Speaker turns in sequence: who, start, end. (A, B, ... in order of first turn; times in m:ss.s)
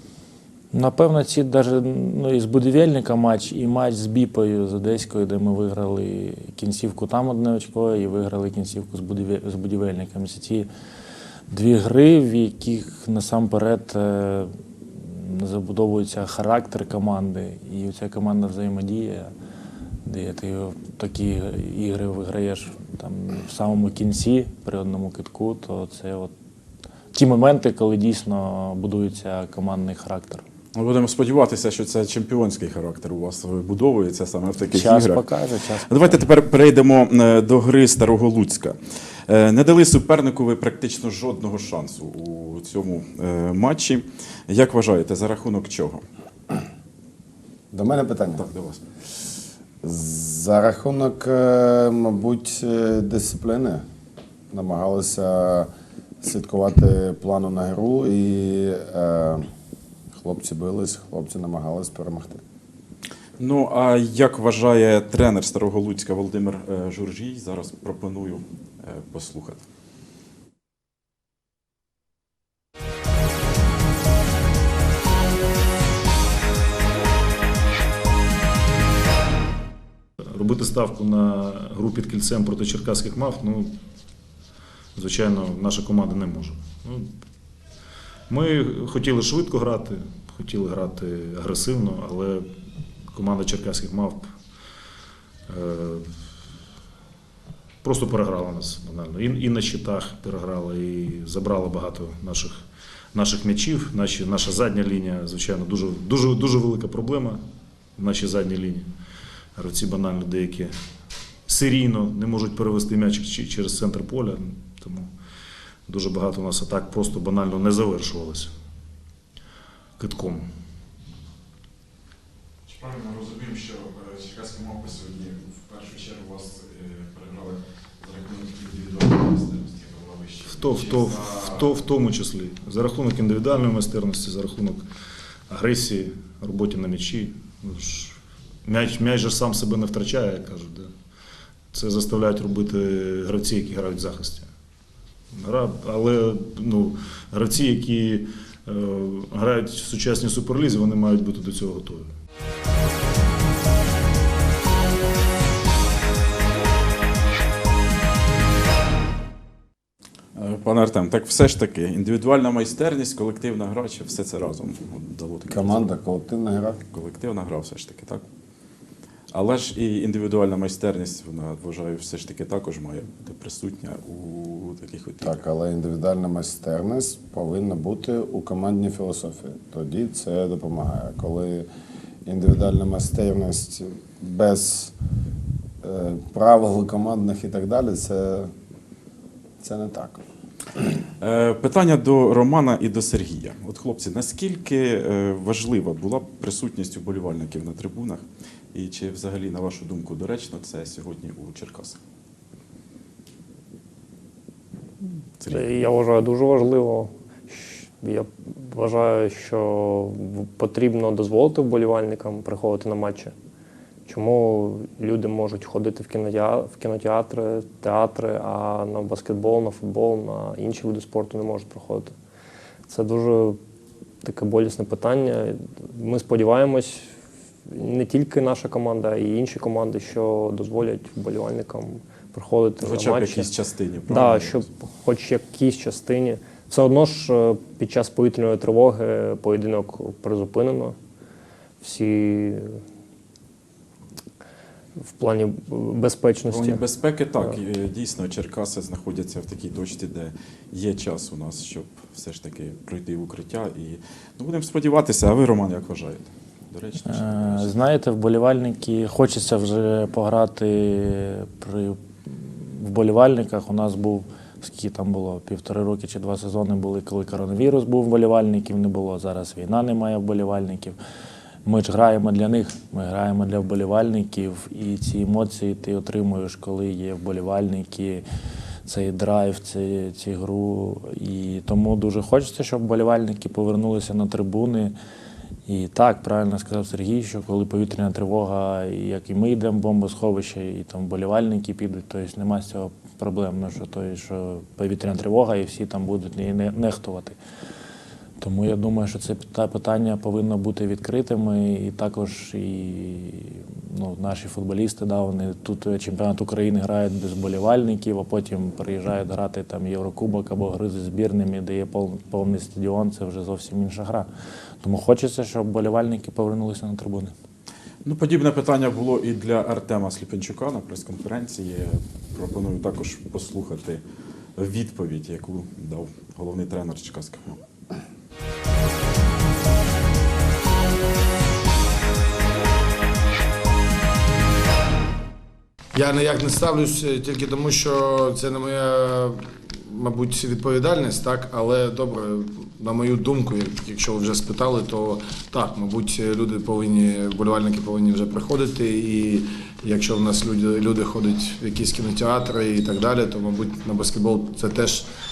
0:00.7-0:10.7 A
0:11.5-0:19.3 A
0:20.0-0:26.3 A
0:27.1-0:30.4 A
0:30.8-0:35.2 B
0:34.7-0:36.2 A
0:35.9-0:38.8 B
0:39.3-0:46.0 B
0:47.7-0:48.5 C
0:48.4-0:48.8 B
0:49.8-0:53.8 C
0:54.5-0:55.7 C
0:56.2-0:59.4 C
1:00.2-1:02.4 C
1:03.4-1:09.6 B
1:20.3-1:23.8 D
1:25.0-1:27.1 D
1:28.3-1:32.5 D
1:33.1-1:34.3 D
1:35.5-1:36.1 D
1:37.8-1:42.6 D
1:43.1-1:47.4 D
1:48.0-1:48.9 D
1:49.6-1:50.7 D
1:51.5-1:55.1 D
1:55.9-1:58.5 D
2:00.0-2:00.5 D
2:02.7-2:11.6 B
2:10.5-2:14.9 D
2:15.5-2:20.9 D
2:21.7-2:24.5 D
2:25.3-2:32.1 D
2:40.4-2:45.8 B
2:45.5-2:46.8 C
2:46.9-2:48.2 B
2:49.3-2:55.4 B
2:55.2-3:01.7 C
3:02.2-3:04.9 C
3:05.8-3:08.5 C
3:09.6-3:10.2 C
3:11.2-3:22.0 B
3:25.4-3:25.7 B
3:25.5-3:33.3 E
3:34.1-3:42.2 E
3:42.9-3:43.6 E
3:44.2-3:47.1 E
3:47.7-3:53.5 E
3:52.8-3:54.6 B
3:54.1-4:01.0 E
4:01.8-4:02.8 E
4:05.2-4:06.8 E
4:06.5-4:17.7 B
4:17.1-4:31.0 A
4:31.6-4:38.2 A
4:38.9-4:44.9 A
4:45.7-4:57.4 A
4:58.4-5:14.3 A
5:14.8-5:17.3 A
5:18.0-5:24.0 B
5:24.6-5:27.6 B
5:36.0-5:55.0 C